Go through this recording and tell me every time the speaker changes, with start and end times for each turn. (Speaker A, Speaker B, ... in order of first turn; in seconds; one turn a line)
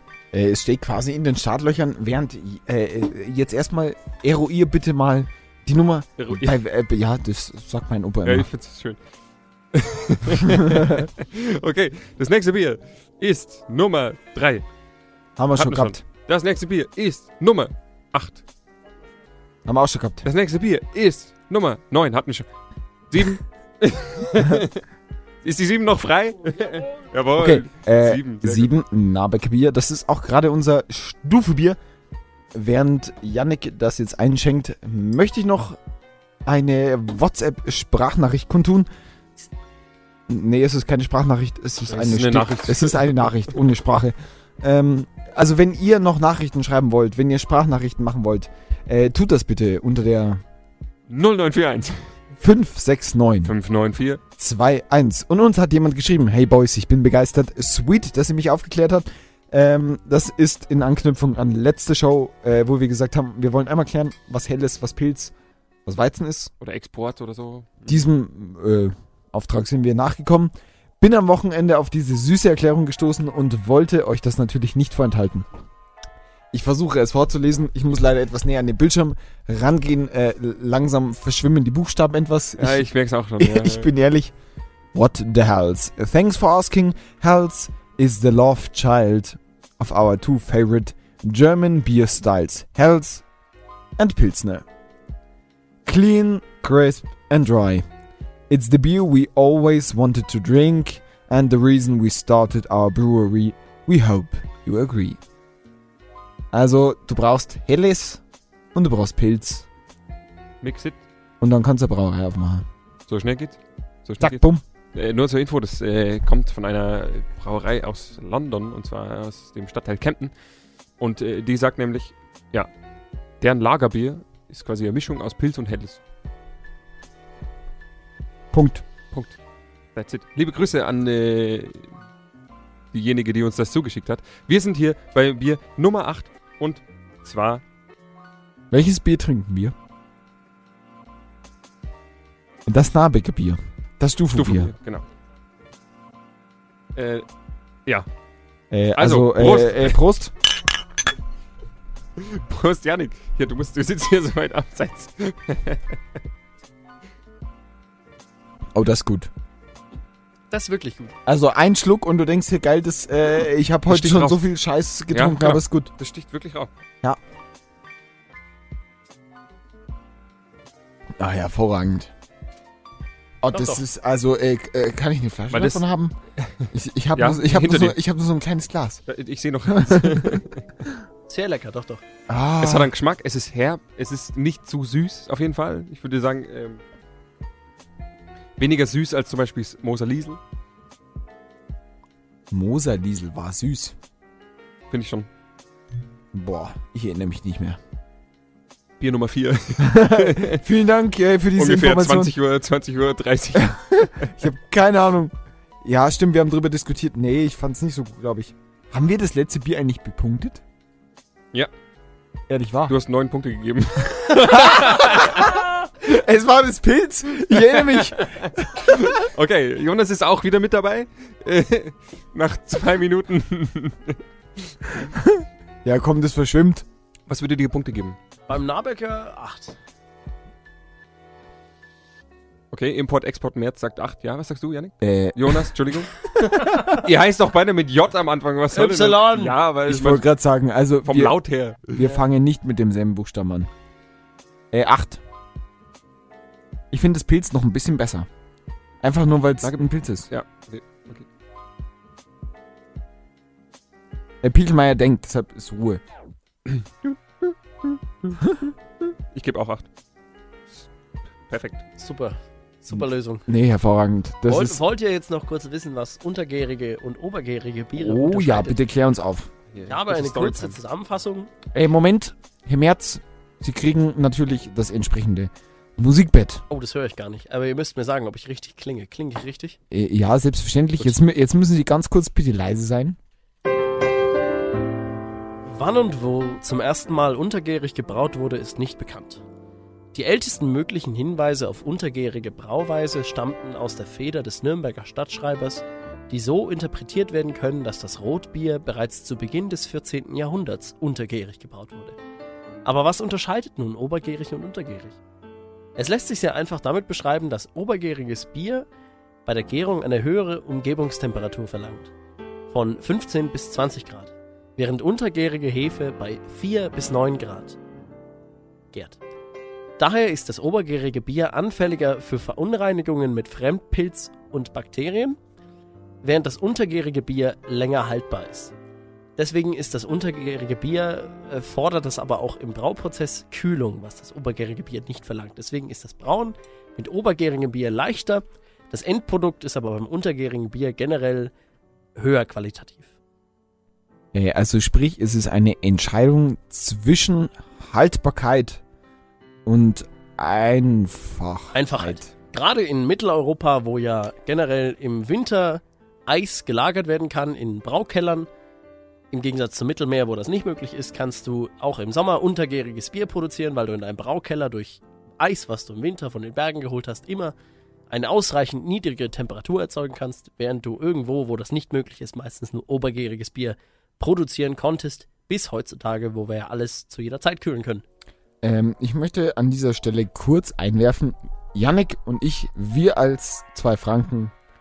Speaker A: 0.3-8.5
Speaker B: 6.2-6.5
Speaker B: 8.2-9.0
Speaker B: 9.7-14.6
Speaker A: 10.4-11.1
Speaker A: 15.4-16.0
Speaker B: 15.6-18.4
Speaker A: 19.6-20.3
Speaker B: 20.2-22.5
Speaker B: 23.1-24.8
Speaker B: 25.4-28.7
Speaker A: 27.4-31.8
Speaker A: 32.5-35.8
Speaker A: 36.5-38.9
Speaker A: 40.3-50.4
Speaker B: 41.9-43.4
Speaker B: 51.1-52.0
Speaker A: 52.4-53.5
Speaker B: 53.4-54.2
Speaker A: 54.4-65.3
Speaker A: 65.9-66.5
Speaker B: 66.6-68.0
Speaker A: 67.9-75.5
Speaker A: 76.5-82.9
Speaker B: 82.6-83.9
Speaker A: 83.4-84.3
Speaker A: 84.9-93.2
Speaker A: 94.0-94.6
Speaker A: 95.8-97.9
Speaker A: 98.5-105.2
Speaker A: 106.5-108.2
Speaker A: 108.7-109.7
Speaker B: 110.6-111.0
Speaker A: 111.4-112.7
Speaker B: 113.1-114.4
Speaker A: 114.2-114.6
Speaker B: 114.9-120.3
Speaker B: 121.0-122.7
Speaker B: 123.4-126.0
Speaker A: 128.5-128.8
Speaker B: 129.1-129.4
Speaker B: 129.9-131.9
Speaker B: 132.9-137.6
Speaker A: 138.7-139.7
Speaker A: 142.7-144.7
Speaker B: 144.3-145.0
Speaker B: 146.9-147.3
Speaker A: 148.7-150.3
Speaker B: 149.0-150.0
Speaker B: 152.2-155.9
Speaker A: 158.7-159.3
Speaker C: 160.5-161.1
Speaker A: 161.3-165.9
Speaker B: 163.9-164.4
Speaker B: 165.1-166.7
Speaker A: 171.2-172.1
Speaker A: 173.4-176.2
Speaker C: 173.5-173.8
Speaker B: 175.5-175.8
Speaker B: 176.4-178.0
Speaker A: 176.7-179.0
Speaker B: 179.1-180.6
Speaker A: 179.7-180.4
Speaker C: 181.3-182.0
Speaker A: 182.3-182.9
Speaker B: 182.6-186.8
Speaker B: 188.6-190.4
Speaker A: 192.5-193.9
Speaker B: 194.9-195.3
Speaker A: 196.3-197.8
Speaker B: 199.0-200.6
Speaker A: 199.8-202.3
Speaker B: 201.6-204.3
Speaker A: 203.6-205.3
Speaker A: 205.8-210.6
Speaker A: 212.5-212.9
Speaker B: 212.9-215.6
Speaker A: 214.5-219.3
Speaker B: 217.5-225.1
Speaker A: 225.1-226.8
Speaker B: 227.3-228.2
Speaker C: 228.5-229.8
Speaker B: 232.7-236.1
Speaker A: 235.0-235.7
Speaker A: 236.5-237.0
Speaker B: 236.9-240.2
Speaker C: 238.7-239.6
Speaker A: 239.9-241.4
Speaker B: 241.1-242.1
Speaker A: 241.9-243.7
Speaker A: 244.7-245.2
Speaker A: 246.9-248.3
Speaker A: 249.0-250.3
Speaker B: 249.6-251.3
Speaker A: 254.4-256.0
Speaker B: 256.7-257.2
Speaker A: 258.4-258.7
Speaker B: 259.3-259.9
Speaker B: 261.5-261.8
Speaker C: 262.0-263.4
Speaker A: 263.5-264.8
Speaker C: 264.4-268.8
Speaker A: 267.9-269.5
Speaker B: 269.7-270.8
Speaker C: 269.9-271.5
Speaker A: 271.7-276.6
Speaker C: 276.7-279.8
Speaker A: 279.9-283.2
Speaker C: 285.7-289.4
Speaker C: 290.1-302.2
Speaker C: 302.8-305.2
Speaker C: 306.0-308.9
Speaker C: 309.4-312.1
Speaker C: 312.7-317.8
Speaker C: 318.9-319.2
Speaker C: 320.0-325.4
Speaker C: 326.2-328.7
Speaker C: 329.4-341.5
Speaker C: 342.2-343.1
Speaker A: 344.3-348.8
Speaker A: 349.6-352.3
Speaker C: 351.7-358.5
Speaker C: 359.3-367.6
Speaker C: 368.1-378.0
Speaker A: 378.6-384.5